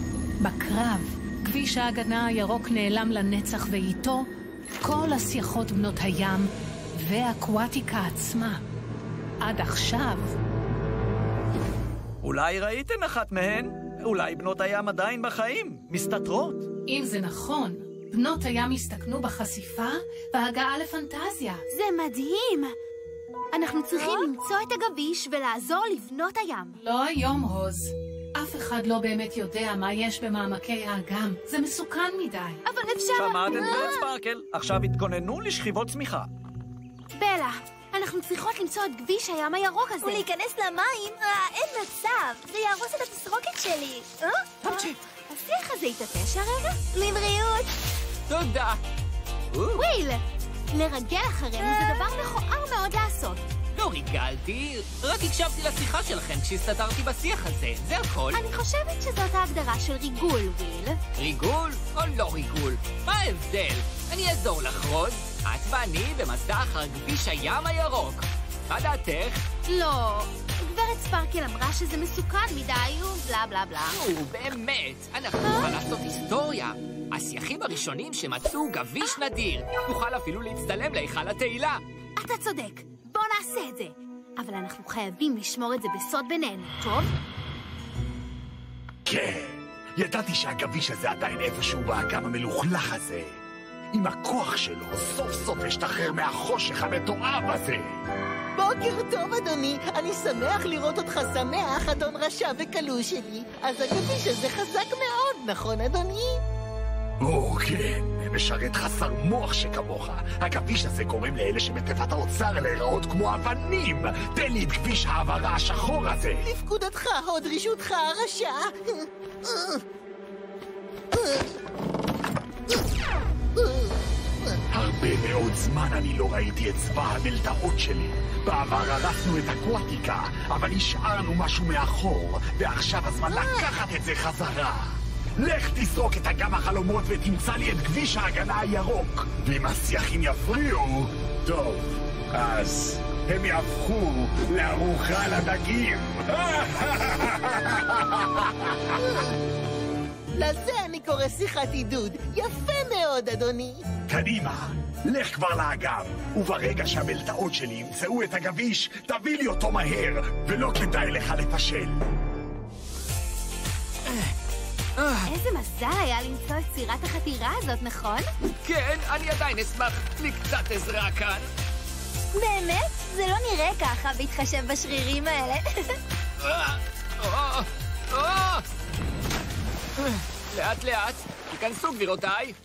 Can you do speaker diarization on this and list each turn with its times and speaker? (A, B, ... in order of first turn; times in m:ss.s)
0:00.4-0:04.3 A
0:04.8-0:08.6 A
0:09.4-0:10.4 A
0:12.2-0:16.7 B
0:16.9-0:21.6 A
0:21.7-0:22.7 C
0:23.5-0:26.8 C
0:26.7-0:32.6 A
0:32.7-0:34.1 C
0:33.1-0:36.3 B
0:37.1-0:40.2 C
0:40.0-0:44.5 D
0:44.6-0:46.8 C
0:46.9-0:47.7 D
0:48.3-0:48.8 E
0:49.5-0:49.8 E
0:49.7-0:53.5 C
0:51.7-0:52.0 D
0:53.7-0:58.4 E
0:58.3-1:01.0 C
1:01.1-1:09.4 E
1:09.7-1:14.0 C
1:13.9-1:21.8 E
1:22.2-1:27.1 C
1:29.0-1:33.4 F
1:33.9-1:37.9 F
1:38.5-1:46.4 G
1:47.2-1:56.4 F
1:56.4-1:59.8 G
2:01.1-2:01.4 G
2:03.6-2:04.6 G
2:04.7-2:29.0 F
2:29.0-2:29.4 G
2:30.4-2:33.8 G
2:34.1-2:42.0 F
2:44.0-2:44.3 E
2:45.0-2:45.3 E
2:45.2-2:48.3 C
2:48.6-2:51.5 E
2:52.3-2:56.0 D
2:56.4-2:58.6 E
3:00.0-3:02.6 E